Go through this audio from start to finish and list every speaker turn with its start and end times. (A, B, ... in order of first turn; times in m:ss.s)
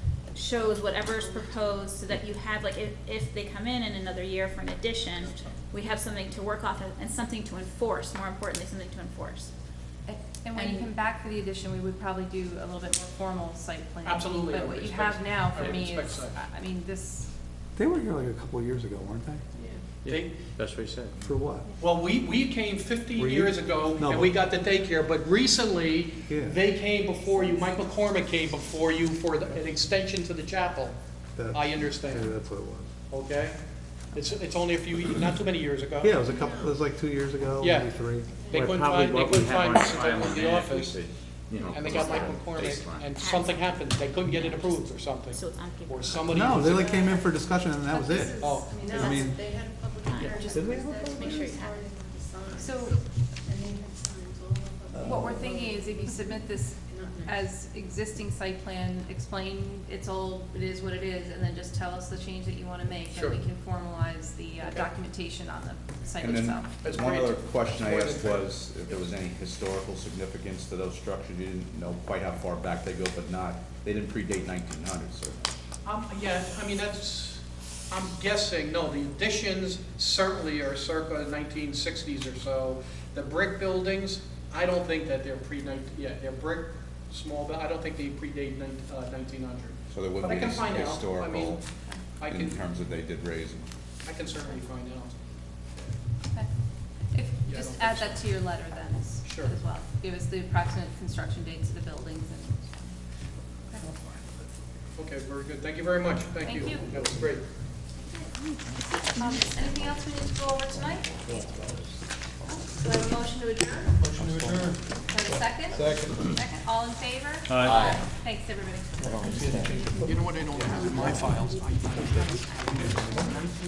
0:00.3-0:09.5 A
0:10.1-0:17.3 B
0:10.5-0:10.9 A
0:14.0-0:16.4 C
0:17.8-0:19.4 D
0:20.0-0:21.2 E
0:20.1-0:20.5 C
0:21.2-0:21.7 D
0:21.8-0:31.0 C
0:23.2-0:24.4 D
0:26.3-0:26.6 D
0:31.4-0:32.9 D
0:31.5-0:32.4 C
0:33.1-0:33.6 C
0:34.1-0:36.2 C
0:36.0-0:38.4 D
0:36.3-0:36.7 F
0:37.6-0:37.9 C
0:38.5-0:41.0 C
0:38.5-0:42.6 E
0:41.6-0:43.1 G
0:41.7-0:47.1 C
0:41.9-0:42.4 A
0:43.1-0:46.7 A
0:46.3-0:49.4 D
0:47.9-0:49.4 B
0:48.4-0:48.8 C
0:48.8-0:52.7 F
0:50.1-0:51.8 A
0:50.3-0:51.5 D
0:52.6-0:53.0 B
0:53.5-0:55.4 F
0:54.9-0:55.4 D
0:55.0-1:06.7 B
0:56.9-0:57.3 F
1:03.1-1:03.4 C
1:04.6-1:04.9 C
1:06.2-1:15.4 G
1:06.8-1:09.0 C
1:15.8-1:31.6 C
1:29.9-1:31.6 G
1:32.2-1:32.6 C
1:32.3-1:33.7 G
1:34.0-1:35.2 C
1:37.1-1:43.0 B
1:37.5-1:38.2 C
1:39.2-1:39.6 C
1:45.0-1:47.5 C
1:46.4-1:46.9 B
1:48.0-1:50.0 A
1:49.2-1:51.5 B
1:52.8-1:53.6 B
1:54.0-1:56.4 D
1:54.2-1:54.6 F
1:55.1-1:59.5 B
1:57.5-1:58.0 E
1:57.7-1:58.0 G
1:59.0-2:00.3 D
1:59.0-1:59.7 F
2:00.0-2:03.5 C
2:03.0-2:03.3 D